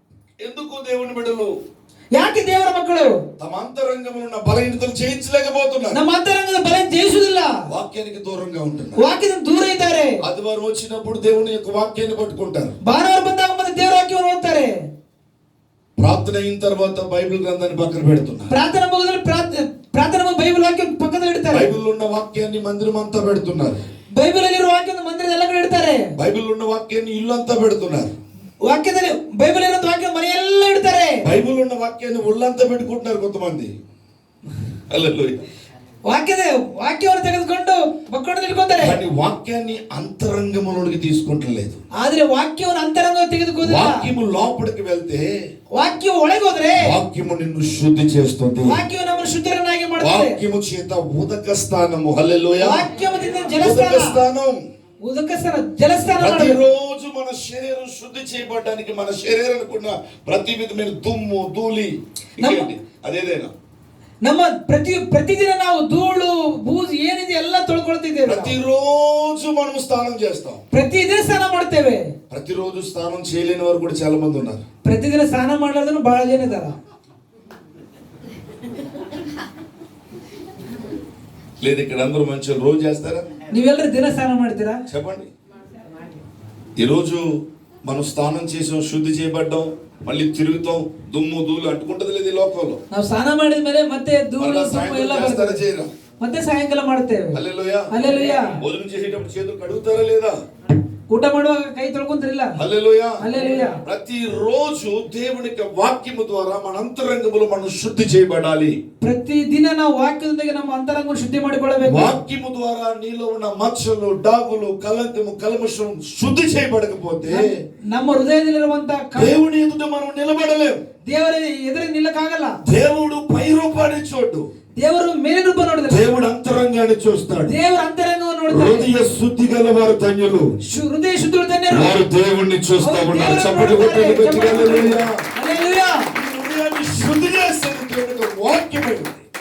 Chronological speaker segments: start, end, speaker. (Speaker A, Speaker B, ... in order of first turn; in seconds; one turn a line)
Speaker A: 0.4-1.5
Speaker B: 2.2-3.2
Speaker A: 3.4-6.0
Speaker B: 5.9-7.6
Speaker A: 7.7-9.0
Speaker B: 9.0-10.2
Speaker A: 10.2-12.8
Speaker B: 12.8-14.8
Speaker A: 16.0-18.5
Speaker B: 18.5-21.7
Speaker A: 21.5-23.8
Speaker B: 24.2-26.1
Speaker A: 26.2-28.1
Speaker B: 28.6-31.2
Speaker A: 31.2-33.7
Speaker A: 34.9-35.4
Speaker B: 36.0-39.0
Speaker A: 38.8-41.8
Speaker B: 42.0-44.1
Speaker A: 43.6-45.3
Speaker B: 45.7-46.9
Speaker A: 46.8-48.8
Speaker B: 48.7-50.4
Speaker A: 50.0-52.9
Speaker B: 52.6-54.2
Speaker A: 53.5-54.6
Speaker B: 55.0-56.6
Speaker A: 56.2-63.5
Speaker B: 62.4-62.7
Speaker B: 64.2-68.6
Speaker A: 68.2-70.6
Speaker B: 70.7-72.1
Speaker A: 72.3-74.6
Speaker B: 74.8-76.7
Speaker A: 81.6-83.3
Speaker B: 83.5-84.8
Speaker A: 84.9-85.3
Speaker A: 86.8-87.2
Speaker A: 87.9-92.8
Speaker B: 92.9-95.6
Speaker A: 94.4-95.9
Speaker B: 96.2-97.4
Speaker A: 97.3-100.4
Speaker B: 97.9-98.6
Speaker B: 101.1-102.5
Speaker A: 102.6-103.2
Speaker B: 103.2-103.8
Speaker A: 103.8-108.8
Speaker B: 109.0-112.1
Speaker A: 111.9-117.5
Speaker B: 117.3-119.3
Speaker A: 119.2-120.8
Speaker B: 121.1-122.6
Speaker A: 122.7-124.5
Speaker B: 124.8-126.0
Speaker A: 125.9-127.5
Speaker B: 127.5-128.9
Speaker A: 128.5-130.5
Speaker B: 130.7-131.9
Speaker A: 131.7-135.2
Speaker B: 132.8-136.1
Speaker A: 136.1-139.2